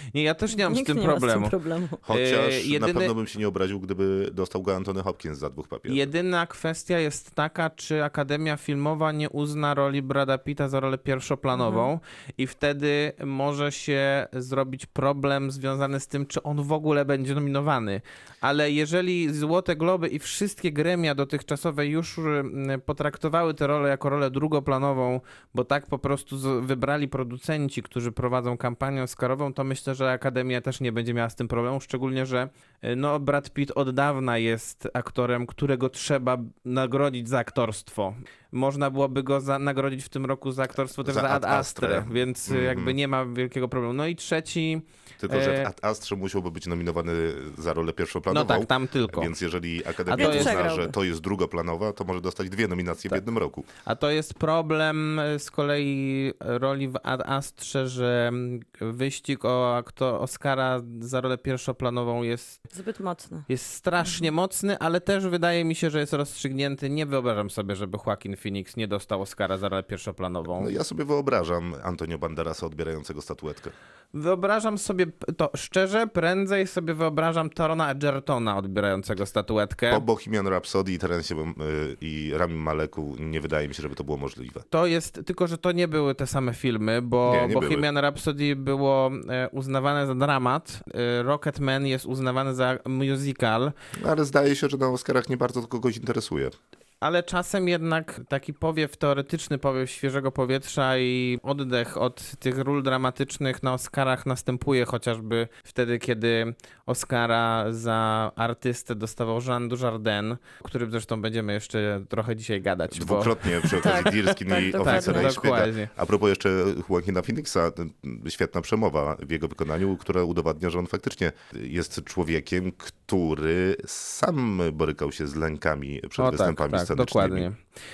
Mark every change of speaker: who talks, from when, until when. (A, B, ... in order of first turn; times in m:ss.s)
0:00.1-0:01.5 A
0:00.5-0:02.0 B
0:02.0-0:06.1 C
0:02.1-0:03.1 A
0:05.9-0:45.7 A
0:11.5-0:11.9 B
0:41.0-0:43.0 C
0:45.2-0:53.7 C
0:48.3-0:49.4 A
0:50.1-0:50.7 A
0:50.2-0:50.9 B
0:53.8-1:02.6 A
1:02.7-1:03.5 B
1:03.5-1:10.7 A
1:10.6-1:13.7 C
1:14.1-1:20.0 A
1:19.9-1:24.7 C
1:24.7-1:33.7 A
1:27.2-1:27.9 C
1:34.0-1:36.6 C
1:37.0-1:54.1 A
1:52.9-2:07.5 C
1:53.8-1:55.4 B
1:54.8-1:55.9 A
2:06.2-2:07.6 A